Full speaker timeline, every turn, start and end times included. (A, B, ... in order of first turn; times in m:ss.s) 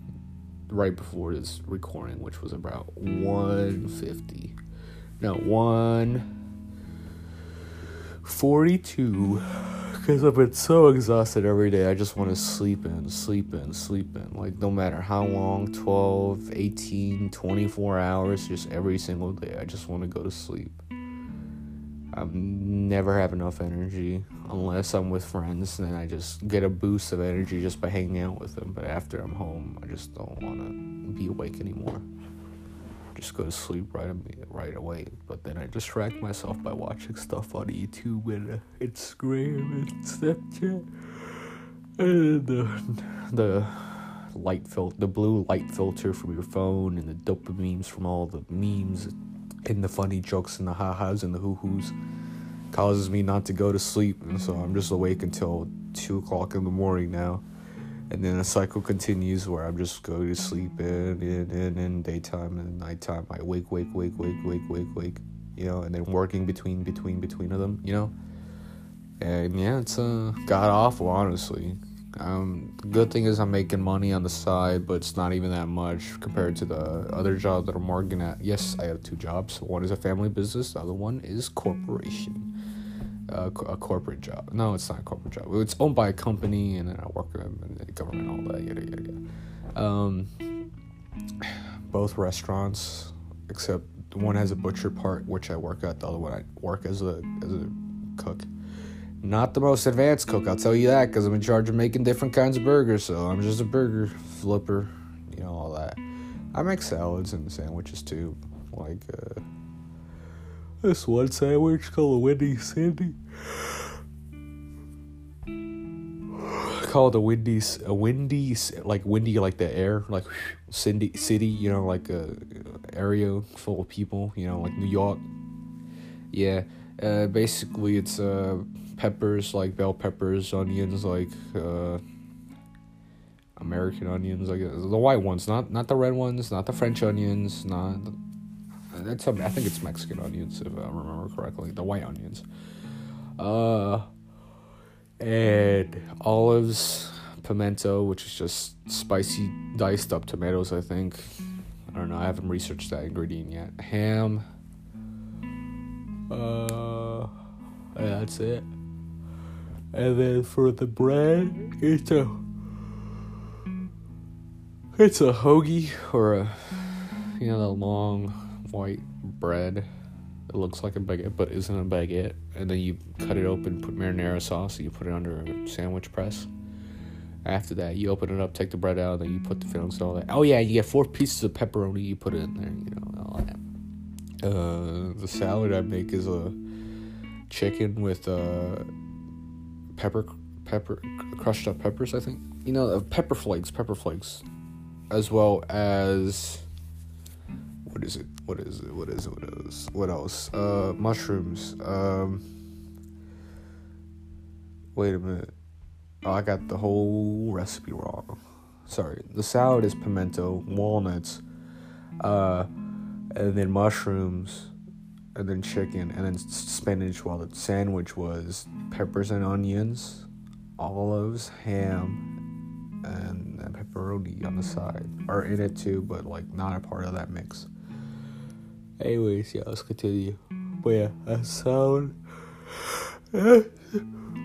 0:00.7-0:04.6 A
0:05.2-0:06.3 A
0:08.2-0:20.8 A
0:22.1-0:32.0 A
0:33.1-0:41.4 A
0:42.0-0:49.1 A
0:49.6-0:51.9 A
0:52.7-0:57.4 A
0:58.1-1:08.1 A
1:09.2-1:22.5 A
1:23.3-1:29.2 A
1:29.7-1:30.3 A
1:31.4-1:38.5 A
1:39.2-1:46.0 A
1:46.5-1:49.4 A
1:50.8-1:53.9 A
1:56.4-2:05.2 A
2:06.3-2:12.0 A
2:13.6-2:18.1 A
2:18.9-2:22.4 A
2:23.4-2:24.1 A
2:25.2-2:31.3 A
2:31.9-2:34.4 A
2:36.3-2:37.3 A
2:37.9-2:38.7 A
2:39.9-2:42.4 A
2:45.0-2:49.9 A
2:50.5-2:56.5 A
2:57.4-3:03.6 A
3:04.4-3:06.6 A
3:07.5-3:08.9 A
3:09.9-3:14.4 A
3:15.1-3:16.7 A
3:17.8-3:22.4 A
3:24.9-3:25.5 A
3:26.2-3:31.4 A
3:32.2-3:32.7 A
3:33.3-3:34.7 A
3:35.3-3:42.2 A
3:43.0-3:47.7 A
3:49.0-3:52.2 A
3:52.7-3:54.0 A